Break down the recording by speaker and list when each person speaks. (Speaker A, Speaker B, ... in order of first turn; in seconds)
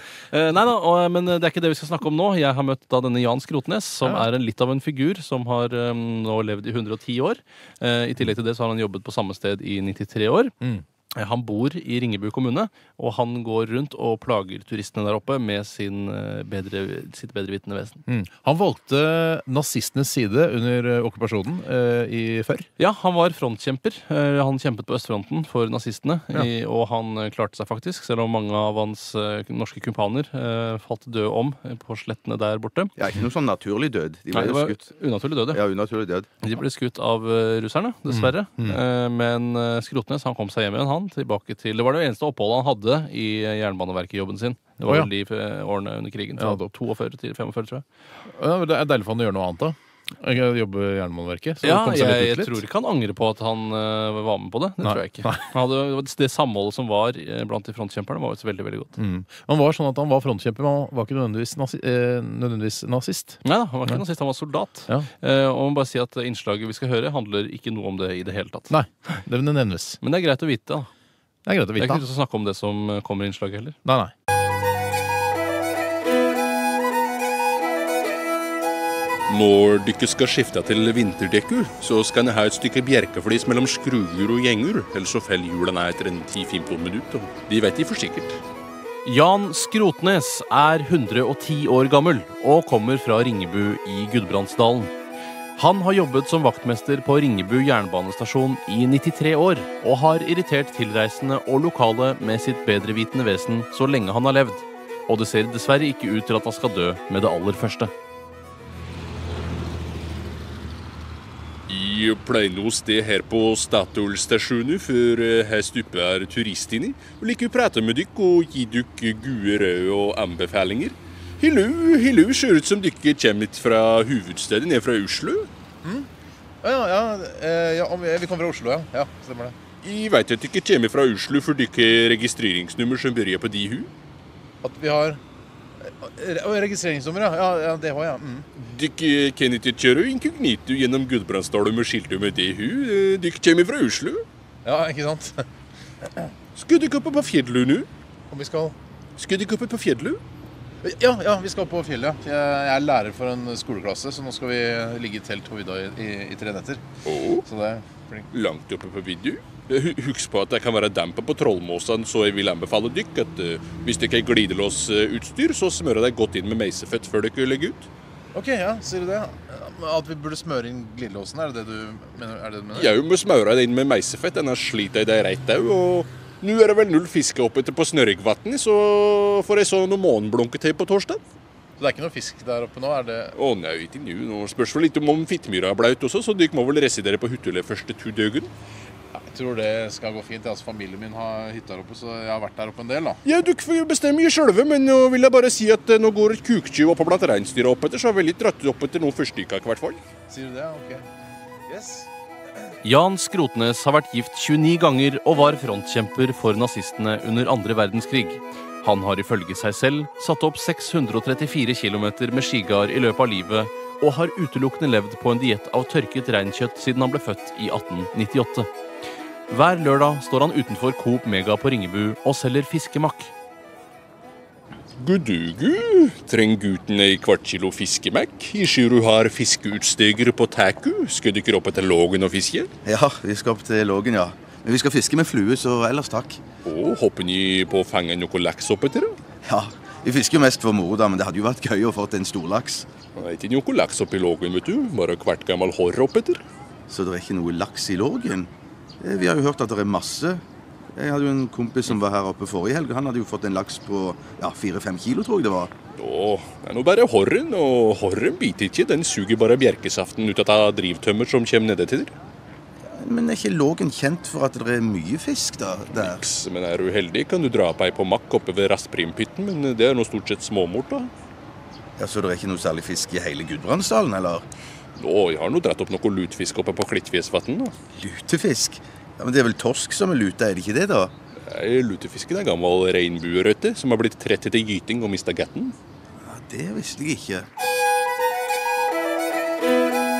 Speaker A: 0.3-10.5, 11.2-18.0, 22.8-32.9, 34.3-35.6, 36.4-47.8, 51.6-58.9, 63.4-68.7, 70.0-70.9, 71.8-73.8, 89.0-94.9, 95.5-107.9, 202.8-218.7, 219.5-223.3
Speaker B: 18.1-22.7, 38.1-38.8, 44.8-45.1, 46.4-46.7, 48.3-52.6, 54.8-55.5, 59.0-64.0, 68.7-70.0, 71.5-72.0, 73.8-74.1, 125.8-126.1, 126.6-129.6, 134.6-135.2, 135.8-138.5, 144.6-145.4, 148.3-148.7, 150.8-156.8, 157.4-158.3, 168.3-172.9, 181.8-183.3, 189.1-193.2, 200.3-201.1, 201.7-202.1
Speaker C: 33.0-34.9, 35.5-36.3, 232.8-236.4, 239.4-242.9, 246.9-250.4, 250.9-255.7, 262.9-266.2, 272.0-274.5, 277.9-281.1, 286.2-287.5
Speaker D: 79.3-88.4, 111.7-125.5, 129.8-133.9, 138.6-144.2, 146.5-147.9, 149.2-150.2, 157.0-157.4, 158.3-167.9, 172.7-181.2, 183.3-188.5, 193.2-200.0, 225.0-232.7, 236.6-239.2, 243.2-246.4, 256.0-262.1, 266.0-271.1, 275.0-277.7, 281.4-285.8